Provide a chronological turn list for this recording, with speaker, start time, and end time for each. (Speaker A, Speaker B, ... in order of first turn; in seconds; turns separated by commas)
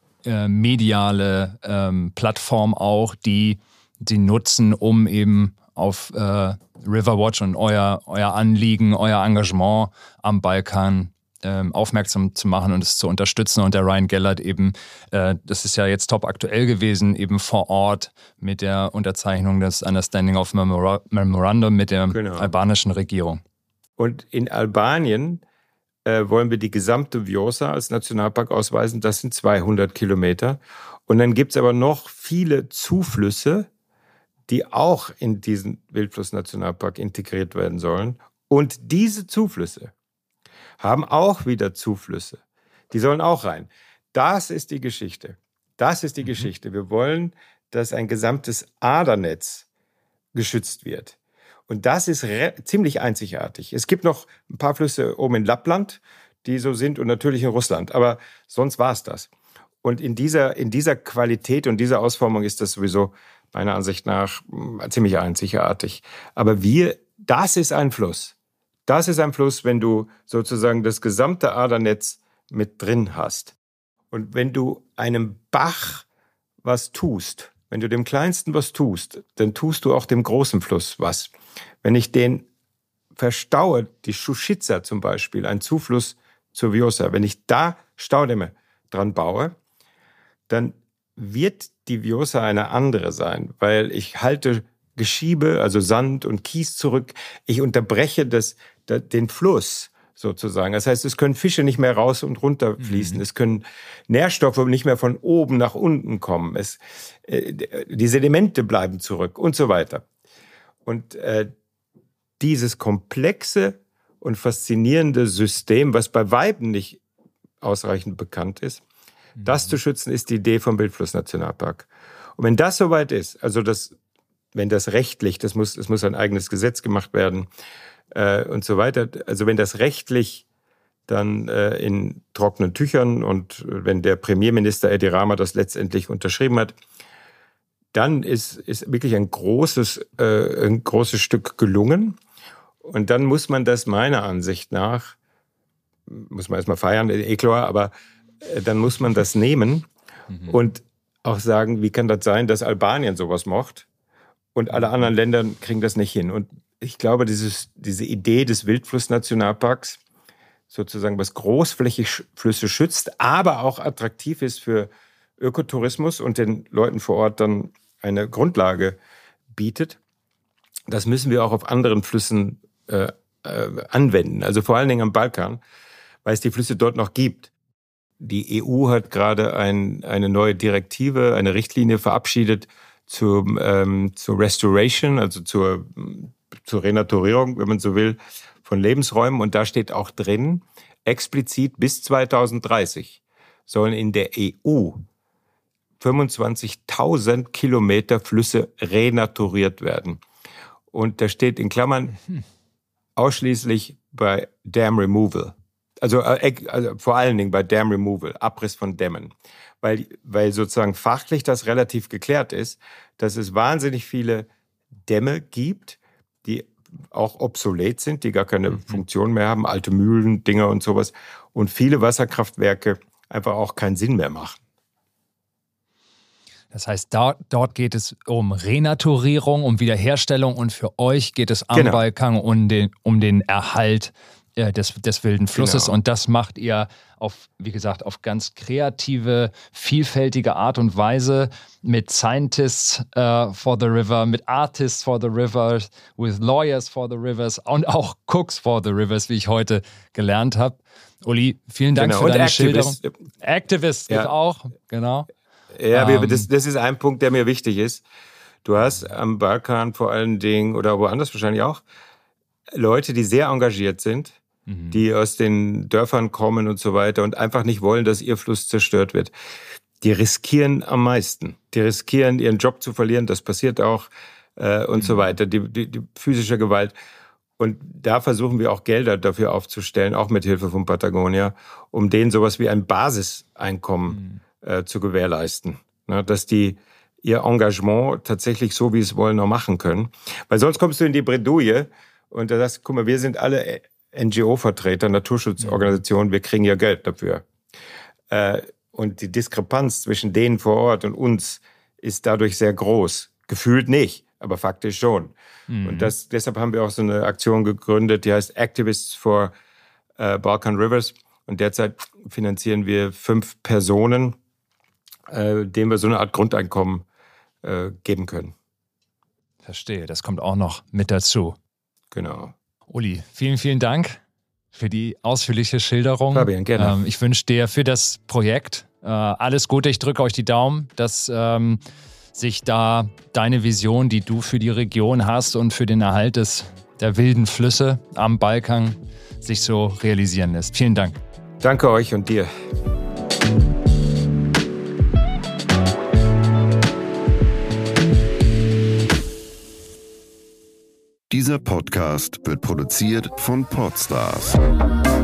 Speaker A: 0.2-23.4, Speaker B: 22.1-22.5, Speaker B: 24.0-25.4, Speaker B: 26.0-33.7, Speaker B: 34.5-39.9, Speaker B: 40.8-49.6, Speaker B: 50.3-51.1, Speaker B: 51.7-59.3, Speaker B: 59.8-68.3, Speaker B: 68.9-73.5, Speaker B: 74.1-76.0, Speaker B: 76.6-81.3, Speaker B: 81.8-82.5, Speaker B: 83.2-89.5, Speaker B: 90.5-110.0, Speaker A: 102.8-103.2, Speaker B: 110.8-111.5, Speaker B: 112.4-117.0, Speaker B: 117.6-118.8, Speaker B: 119.4-124.0, Speaker B: 124.5-127.5, Speaker B: 128.1-130.4, Speaker B: 131.1-136.7, Speaker B: 137.9-142.2, Speaker B: 142.8-145.2, Speaker B: 146.1-149.9, Speaker B: 150.5-153.8, Speaker B: 154.5-160.0, Speaker B: 160.7-169.0, Speaker B: 169.5-170.0, Speaker B: 170.9-175.6, Speaker B: 176.2-177.5, Speaker B: 178.2-195.0, Speaker B: 196.0-200.2, Speaker B: 200.9-202.2, Speaker B: 203.2-214.5, Speaker B: 215.1-224.6, Speaker A: 218.7-219.0, Speaker A: 226.7-255.3, Speaker B: 231.7-232.0, Speaker B: 235.6-235.9, Speaker B: 251.9-253.1, Speaker B: 255.8-258.0, Speaker A: 255.9-256.5, Speaker B: 258.6-261.8, Speaker B: 262.7-264.4, Speaker A: 264.7-265.0, Speaker B: 264.9-269.3, Speaker B: 270.0-276.9, Speaker A: 275.0-275.3, Speaker B: 277.6-297.4, Speaker A: 284.1-284.4, Speaker B: 298.3-309.5, Speaker A: 305.7-306.1, Speaker B: 310.2-314.4, Speaker B: 315.3-317.0, Speaker B: 317.6-318.5, Speaker A: 319.6-321.6, Speaker B: 322.1-322.5, Speaker A: 322.9-324.2, Speaker A: 324.7-331.8, Speaker B: 326.3-327.0, Speaker A: 332.3-341.2, Speaker B: 341.6-342.5, Speaker C: 351.3-354.6